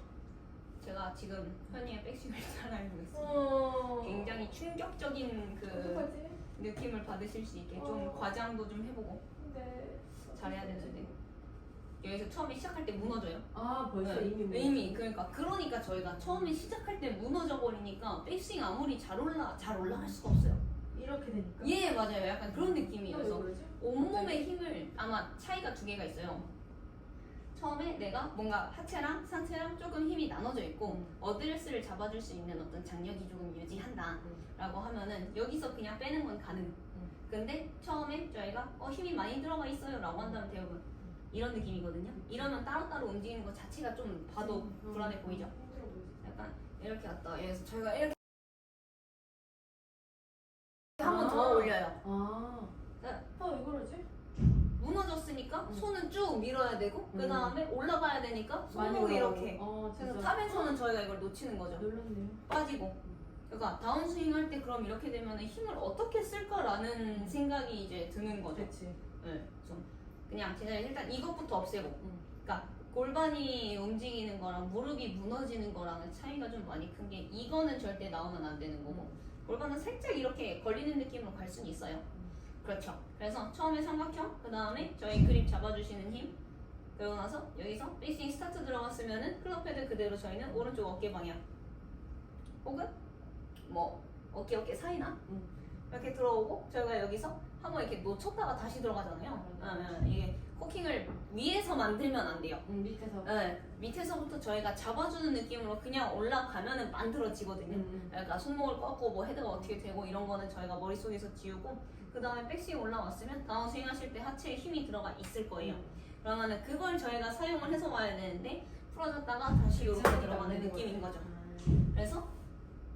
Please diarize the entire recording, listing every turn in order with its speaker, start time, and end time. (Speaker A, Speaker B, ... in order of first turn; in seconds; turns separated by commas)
Speaker A: 0.8-9.2, Speaker B: 3.1-4.5, Speaker B: 5.7-6.4, Speaker B: 7.8-8.3, Speaker B: 9.4-11.1, Speaker A: 10.3-11.1, Speaker A: 12.0-13.5, Speaker B: 13.5-15.0, Speaker A: 14.0-20.6, Speaker B: 20.9-21.8, Speaker A: 21.6-26.5, Speaker B: 22.7-24.4, Speaker A: 27.6-45.5, Speaker B: 30.9-31.1, Speaker B: 44.4-46.2, Speaker A: 46.2-48.2, Speaker A: 51.0-52.0, Speaker B: 51.0-52.7, Speaker B: 53.4-54.1, Speaker A: 54.8-61.9, Speaker B: 57.1-57.6, Speaker B: 58.7-60.7, Speaker B: 61.8-62.4, Speaker A: 62.5-63.0, Speaker A: 63.5-68.7, Speaker B: 67.2-67.4, Speaker B: 68.5-69.0, Speaker A: 69.2-82.0, Speaker B: 78.9-79.1, Speaker A: 82.6-86.3, Speaker A: 87.0-91.4, Speaker A: 92.6-92.9, Speaker A: 93.6-95.2, Speaker A: 95.9-102.6, Speaker B: 99.4-99.9, Speaker B: 102.7-103.3, Speaker A: 103.2-121.3, Speaker B: 107.7-108.1, Speaker B: 115.6-115.9, Speaker B: 119.7-121.8, Speaker A: 121.8-122.3